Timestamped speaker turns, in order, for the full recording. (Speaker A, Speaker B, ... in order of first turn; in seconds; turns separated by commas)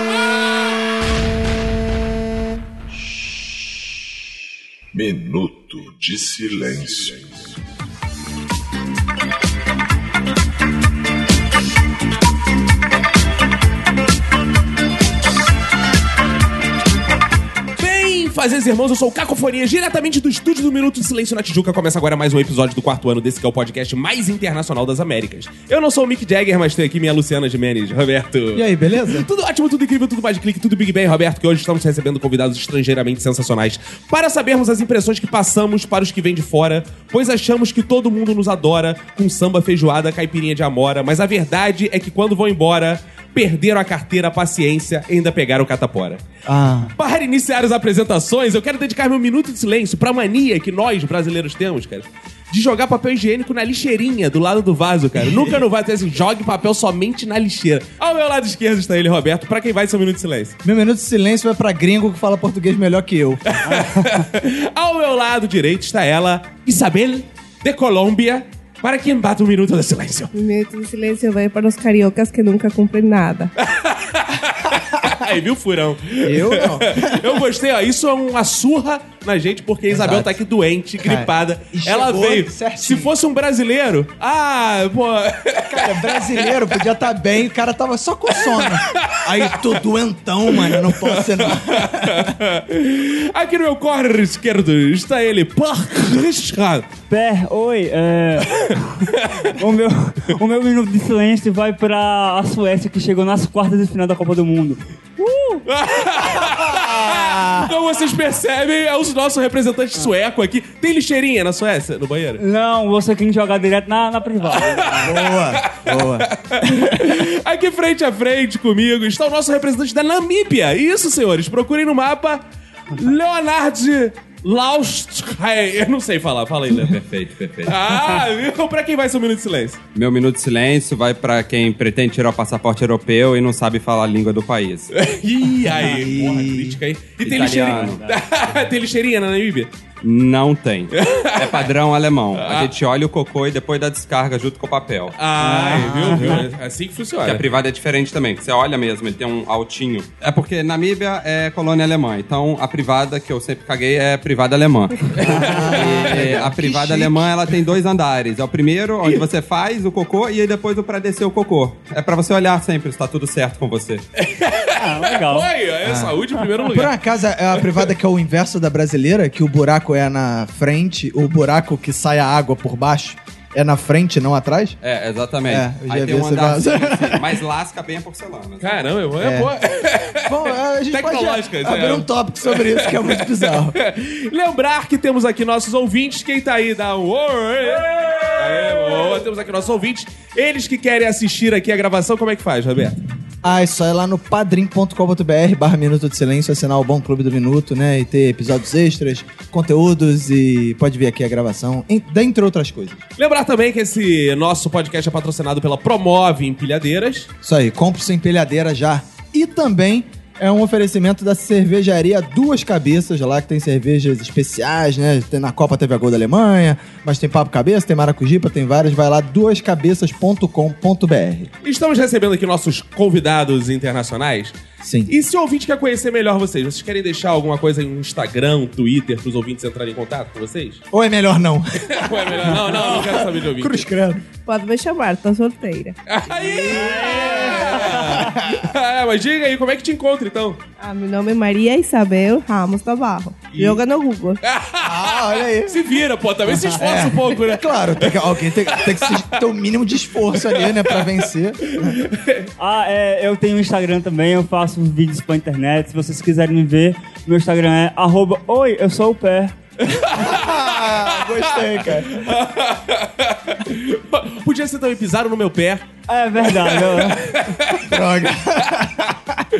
Speaker A: 4.9-7.5, Speaker B: 17.8-46.2, Speaker C: 28.5-29.3, Speaker C: 46.5-46.9, Speaker B: 47.0-60.5, Speaker C: 55.3-55.6, Speaker C: 60.6-63.4, Speaker B: 63.5-70.3, Speaker D: 63.6-64.2, Speaker E: 70.3-73.5, Speaker B: 73.6-86.7, Speaker C: 76.2-77.4, Speaker C: 79.9-80.3, Speaker C: 81.0-83.1, Speaker C: 85.7-92.3, Speaker B: 88.4-89.7, Speaker B: 90.5-96.9, Speaker D: 97.1-105.6, Speaker B: 98.6-99.5, Speaker B: 105.7-112.4, Speaker C: 106.3-107.7, Speaker D: 112.4-115.2, Speaker B: 114.6-127.0, Speaker C: 115.0-116.8, Speaker F: 126.7-127.8, Speaker B: 127.7-129.8, Speaker F: 129.9-134.9, Speaker B: 134.9-139.7, Speaker C: 135.8-136.8, Speaker F: 137.2-138.0, Speaker D: 137.4-138.1, Speaker F: 140.0-145.1, Speaker B: 140.9-141.7, Speaker B: 142.3-142.7, Speaker B: 145.2-147.4, Speaker D: 145.4-146.4, Speaker C: 145.9-146.2, Speaker F: 147.2-164.0, Speaker C: 155.3-157.3, Speaker D: 155.3-155.8, Speaker B: 164.2-166.9, Speaker D: 164.8-165.5, Speaker C: 165.8-174.8, Speaker F: 174.8-179.1, Speaker C: 175.5-177.3, Speaker B: 178.6-193.0, Speaker C: 179.2-179.5, Speaker C: 180.2-183.7, Speaker D: 188.0-188.3, Speaker C: 193.4-203.0, Speaker B: 203.2-207.3, Speaker C: 207.4-221.5, Speaker B: 221.6-230.8, Speaker C: 224.8-225.1, Speaker C: 230.9-234.2, Speaker B: 231.9-233.8, Speaker E: 234.4-236.0, Speaker B: 236.1-240.6, Speaker C: 236.4-238.6, Speaker D: 236.7-237.9, Speaker E: 240.8-244.4, Speaker B: 244.4-249.2, Speaker C: 244.8-245.8, Speaker C: 246.6-252.0, Speaker B: 250.4-251.1, Speaker B: 251.7-252.5, Speaker D: 252.6-259.5, Speaker B: 259.9-265.8, Speaker C: 260.1-262.2, Speaker D: 266.1-267.4, Speaker B: 266.5-267.8, Speaker C: 267.8-269.4